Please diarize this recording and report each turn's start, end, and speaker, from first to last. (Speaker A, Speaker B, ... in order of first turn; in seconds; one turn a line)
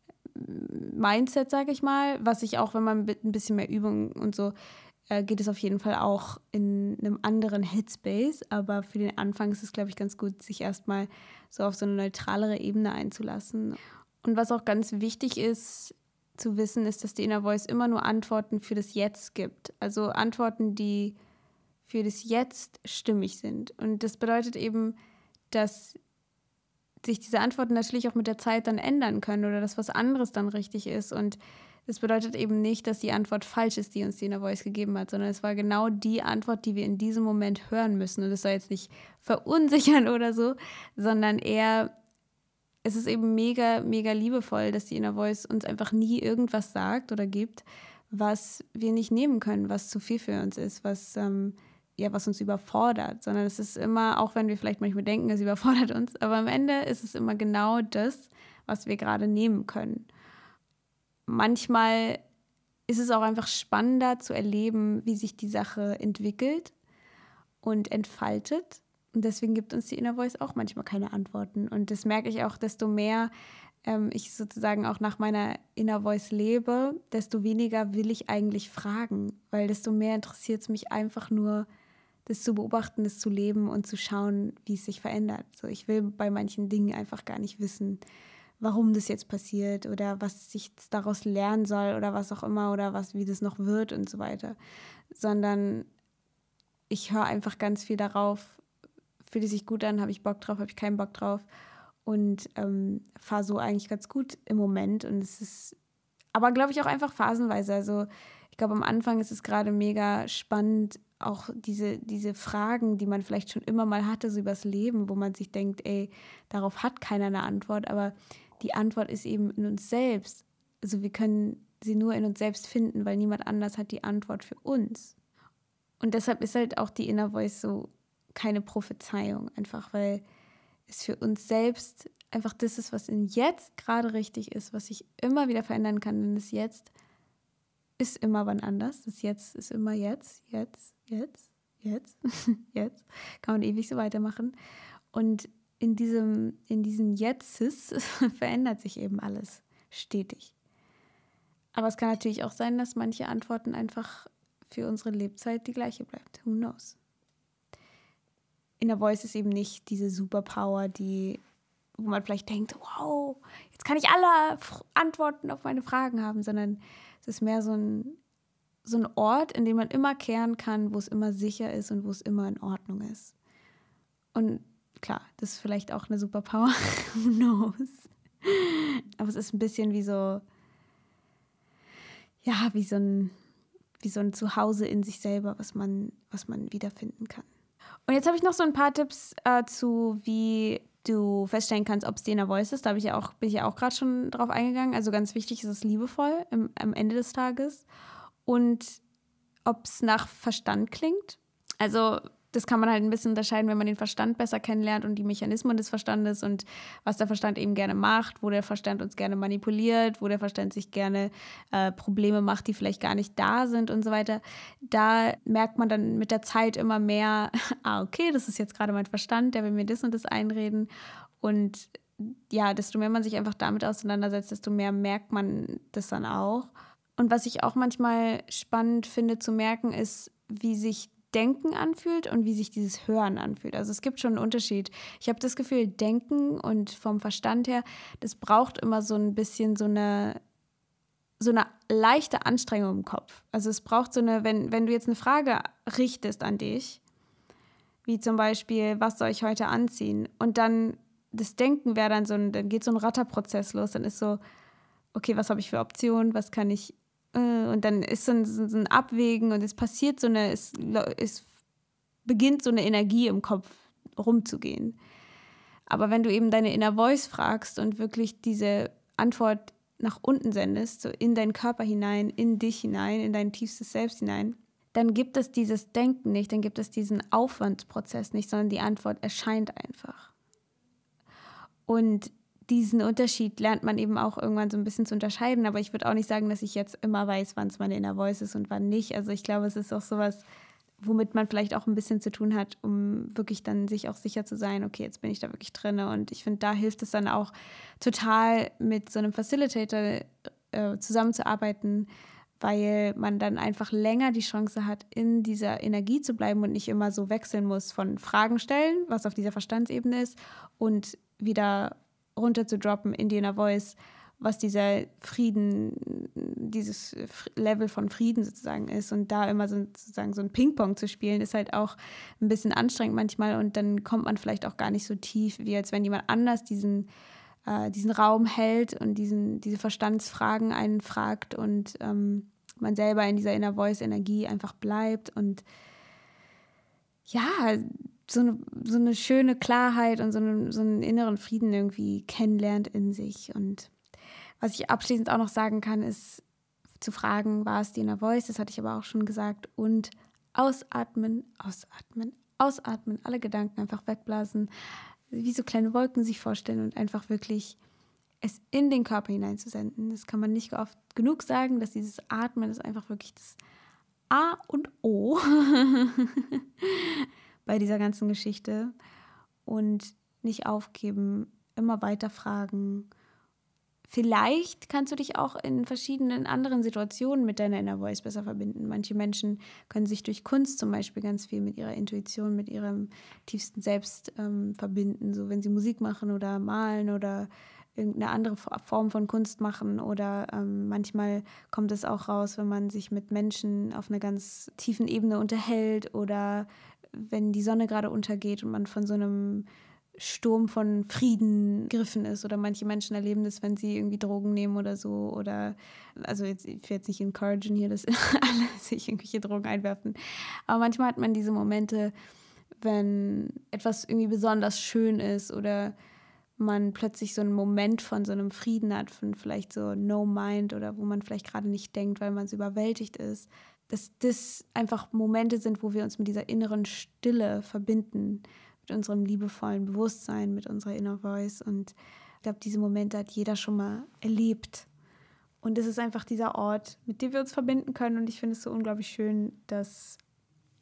Speaker A: 0.3-4.5
Speaker A: 5.1-21.1
Speaker A: 21.8-24.9
Speaker A: 25.5-26.0
Speaker A: 27.0-41.9
Speaker A: 42.8-60.1
Speaker A: 61.3-62.2
Speaker A: 62.9-66.7
Speaker A: 67.6-73.3
Speaker A: 73.8-81.7
Speaker A: 82.2-88.0
Speaker A: 88.6-94.5
Speaker A: 95.1-95.9
Speaker A: 96.9-98.6
Speaker A: 99.2-101.5
Speaker A: 102.0-105.8
Speaker A: 106.3-125.2
Speaker A: 126.0-130.2
Speaker A: 130.9-136.9
Speaker A: 138.0-144.5
Speaker A: 145.1-150.5
Speaker A: 151.7-157.0
Speaker A: 158.8-161.4
Speaker A: 162.0-168.2
Speaker A: 168.8-173.3
Speaker A: 174.3-180.4
Speaker A: 182.4-183.3
Speaker A: 184.0-187.5
Speaker A: 188.1-197.8
Speaker A: 198.4-199.0
Speaker A: 199.7-220.9
Speaker A: 221.4-240.4
Speaker A: 241.4-247.0
Speaker A: 248.1-254.4
Speaker A: 255.1-261.5
Speaker A: 262.2-264.9
Speaker A: 265.9-280.3
Speaker A: 281.9-290.4
Speaker A: 291.0-302.1
Speaker A: 302.6-327.1
Speaker A: 327.6-335.6
Speaker A: 337.3-343.9
Speaker A: 344.6-346.4
Speaker A: 347.0-354.7
Speaker A: 355.3-357.8
Speaker A: 358.4-363.6
Speaker A: 364.3-368.9
Speaker A: 369.6-373.1
Speaker A: 374.1-399.6
Speaker A: 400.2-412.1
Speaker A: 412.8-415.9
Speaker A: 416.6-434.9
Speaker A: 435.6-440.2